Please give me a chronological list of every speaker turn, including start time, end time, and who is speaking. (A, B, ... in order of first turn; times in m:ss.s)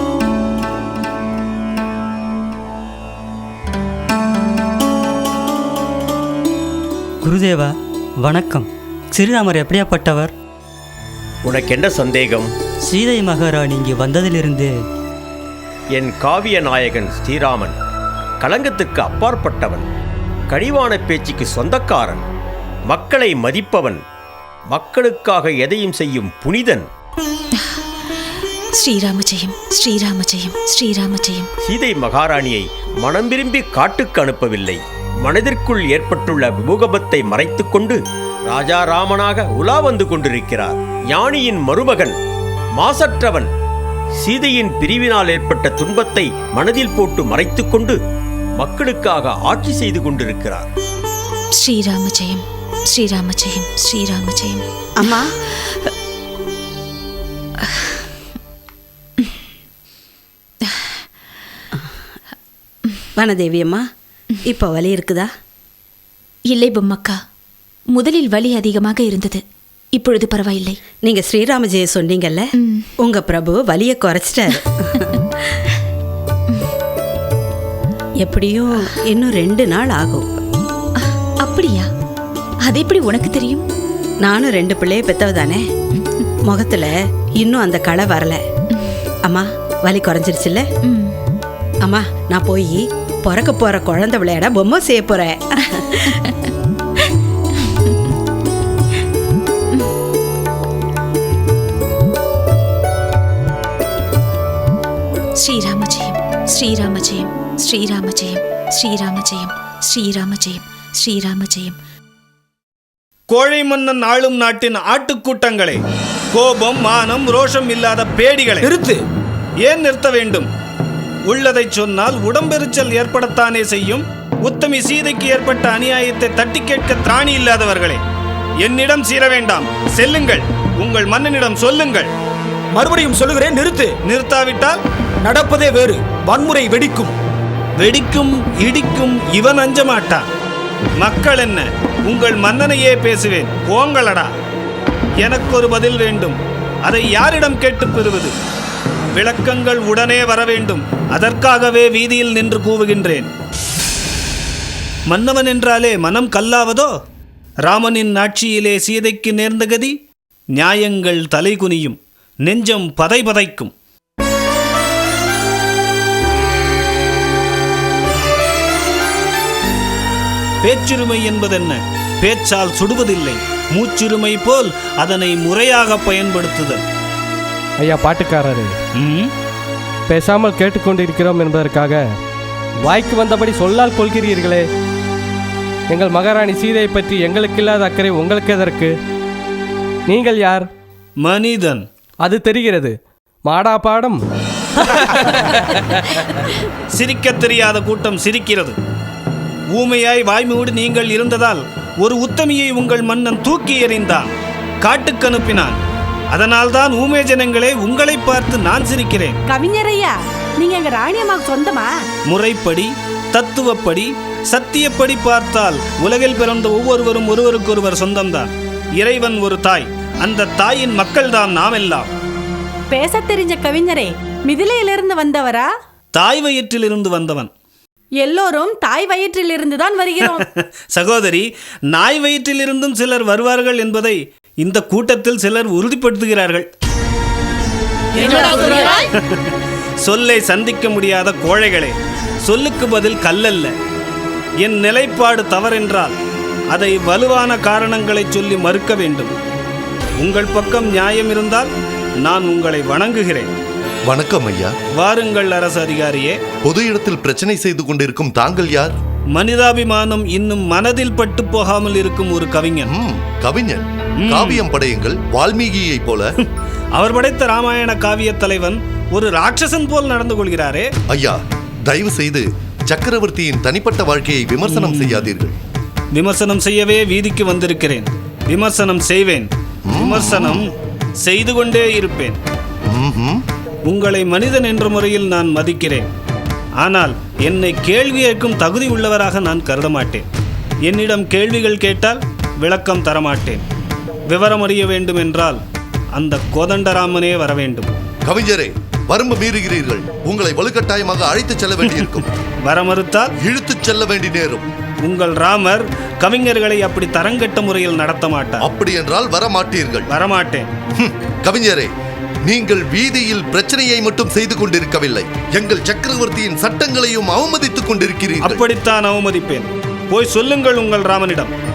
0:07.2-0:10.3 A
0:11.4-0:12.5 B
0:12.8-0:14.8 A
0:15.9-0:17.7 B
0:18.4-0:19.9 B
0:20.5-0:22.2 B
0:22.9-0:24.0 B
0:24.7-0:26.9 B
0:28.8-0:31.5 C
0:31.6-0:42.2 B
0:42.8-0:43.5 B
0:44.2-0:48.0 B
0:48.6-0:50.7 B
0:51.6-0:54.6 C
0:55.0-0:55.3 D
1:03.2-1:03.8 D
1:04.4-1:05.3 D
1:06.5-1:07.2 C
1:07.9-1:09.4 C
1:09.9-1:10.8 C
1:11.0-1:15.4 D
1:12.6-1:12.9 C
1:18.2-1:20.2 D
1:21.0-1:21.9 C
1:22.6-1:23.6 C
1:24.2-1:25.6 D
1:26.5-1:28.4 D
1:29.2-1:30.6 D
1:30.8-1:31.2 C
1:31.8-1:36.0 D
1:36.1-1:36.5 C
1:37.6-1:37.9 C
1:45.4-1:51.8 C
1:53.3-1:55.8 E
1:56.3-1:58.7 E
1:58.6-1:59.0 F
1:59.6-2:00.5 E
2:01.3-2:08.0 E
2:08.6-2:12.1 E
2:12.7-2:14.0 F
2:14.1-2:14.8 E
2:15.2-2:17.1 F
2:17.8-2:20.2 E
2:21.0-2:24.3 E
2:25.2-2:28.3 E
2:29.1-2:33.3 E
2:35.1-2:36.9 E
2:37.7-2:39.9 E
2:40.6-2:43.7 E
2:50.6-2:56.8 E
2:57.8-2:58.7 G
2:59.0-2:59.3 E
3:00.1-3:02.1 G
3:02.8-3:04.7 G
3:05.9-3:09.0 G
3:10.1-3:10.7 G
3:11.2-3:11.8 E
3:12.2-3:14.2 G
3:16.9-3:18.8 E
3:19.7-3:24.3 E
3:24.8-3:25.8 E
3:26.3-3:29.4 E
3:29.5-3:32.0 H
3:32.3-3:42.1 E
3:42.9-3:45.7 H
3:46.1-3:47.5 E
3:48.2-3:50.4 H
3:50.2-3:56.6 E
3:58.2-4:03.7 E
4:04.6-4:06.2 E
4:06.7-4:09.3 E
4:10.2-4:11.7 E
4:12.2-4:13.5 E
4:14.1-4:14.7 I
4:15.0-4:16.4 E
4:16.6-4:18.9 I
4:19.4-4:22.9 E
4:22.9-4:26.3 I
4:24.2-4:24.6 E
4:27.0-4:30.9 E
4:31.1-4:35.6 I
4:34.7-4:35.3 E
4:36.1-4:40.6 E
4:39.9-4:40.6 I
4:41.2-4:42.4 E
4:42.9-4:43.4 I
4:43.9-4:46.0 E
4:46.8-4:50.2 E
4:50.9-4:53.6 E
4:54.3-4:55.6 E
4:56.1-4:57.9 E
4:58.2-5:02.2 I
5:01.9-5:03.3 E
5:03.4-5:04.7 I
5:05.0-5:08.6 E
5:08.6-5:10.1 I
5:10.1-5:10.7 E
5:11.0-5:11.9 I
5:12.4-5:18.6 I
5:18.4-5:21.5 E